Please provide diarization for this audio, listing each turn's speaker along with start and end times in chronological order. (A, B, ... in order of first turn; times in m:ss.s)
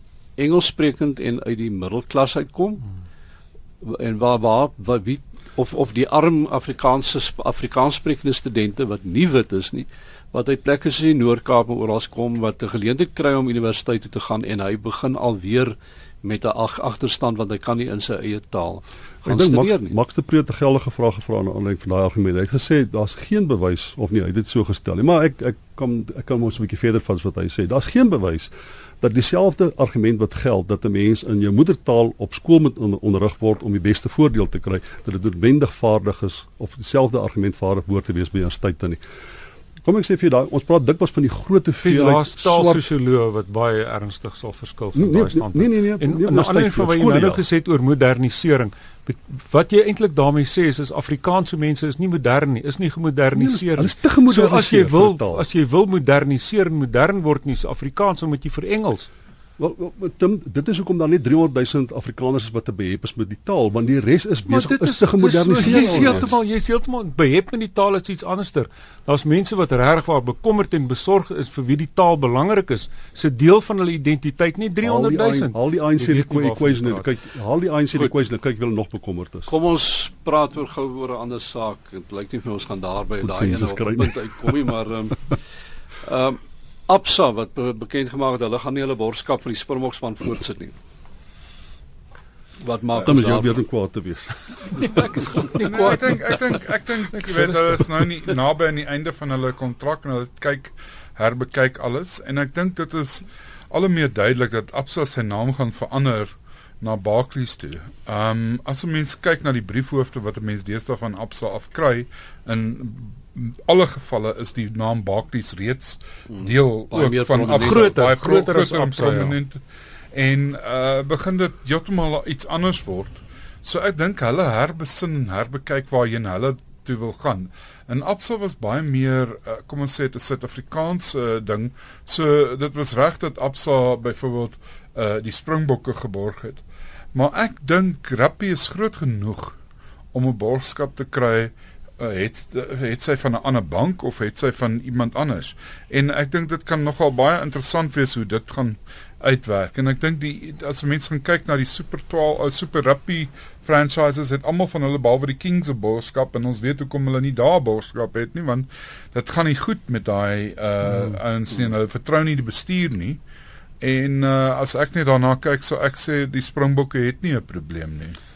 0:00.4-0:02.8 A
0:03.8-0:19.9 A
0:19.2-0:28.5 B
0:29.0-0:39.0 B
0:39.8-0:42.9 B
0:41.8-0:59.1 C
0:44.9-0:47.4 B
0:53.3-0:55.4 B
0:59.6-1:06.4 B
1:04.5-1:17.1 C
1:14.8-1:19.5 B
1:19.5-1:25.4 A
1:23.2-1:24.7 B
1:26.0-1:30.7 A
1:32.6-1:33.6 A
1:33.0-1:34.4 B
1:34.8-1:36.1 C
1:35.4-1:36.1 A
1:35.5-1:59.6 D
1:37.3-1:37.8 C
1:56.3-1:58.0 A
1:57.5-1:59.4 C
2:00.1-2:16.6 D
2:17.1-2:19.6 D
2:20.1-2:43.2 D
2:43.8-2:48.2 D